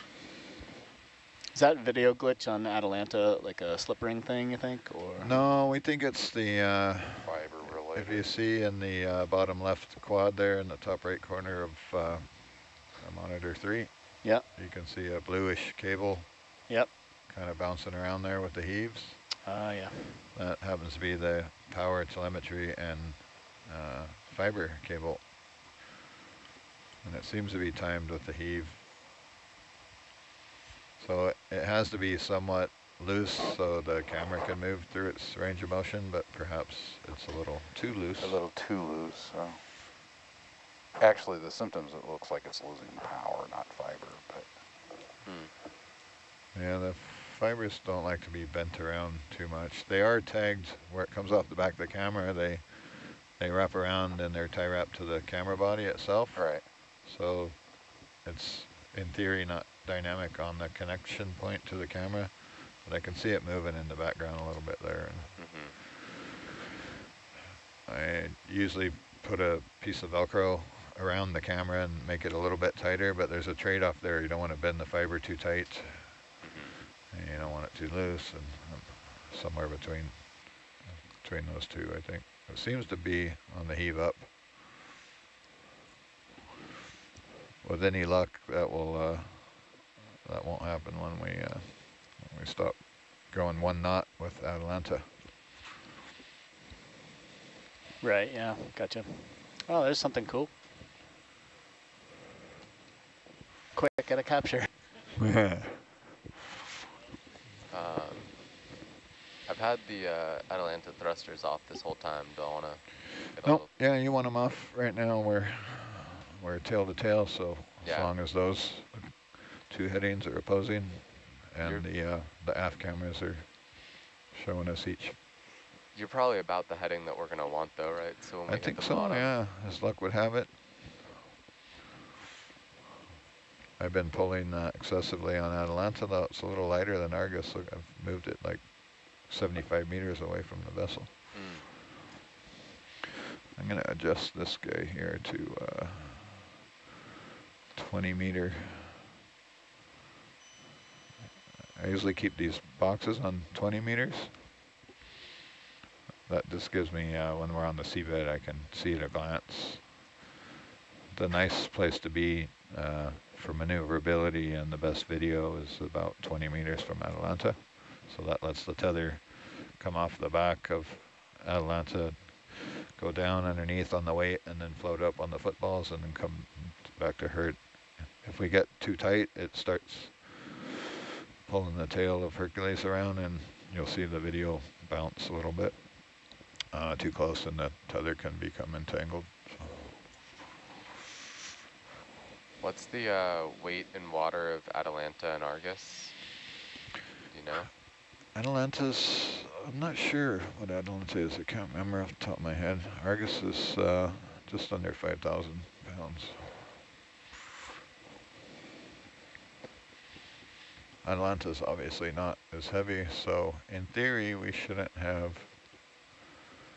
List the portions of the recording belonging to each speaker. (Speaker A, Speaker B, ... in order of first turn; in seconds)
Speaker A: 1.5-5.4, 19.4-20.2, 98.0-100.5, 103.7-104.7
Speaker B: 5.2-13.9, 14.5-16.3, 17.3-19.3, 20.3-25.2, 27.0-28.9, 31.0-38.4, 46.5-65.3, 67.9-76.2, 77.1-84.3, 87.6-95.1, 105.2-105.9, 113.4-123.5, 124.3-125.2, 128.5-130.6, 133.8-141.1, 143.6-146.5, 147.7-149.1, 151.8-154.3, 156.3-159.8, 161.1-180.7, 181.5-185.8, 186.7-189.9, 198.3-206.6, 211.0-215.5
Speaker C: 7.2-8.3, 38.2-39.6, 41.0-44.5, 56.3-56.6
Speaker D: 45.2-45.5, 65.4-65.7, 76.4-76.8, 107.7-108.3, 109.5-113.7, 117.8-118.1, 125.9-129.3, 141.3-141.7, 192.6-196.2, 197.3-197.7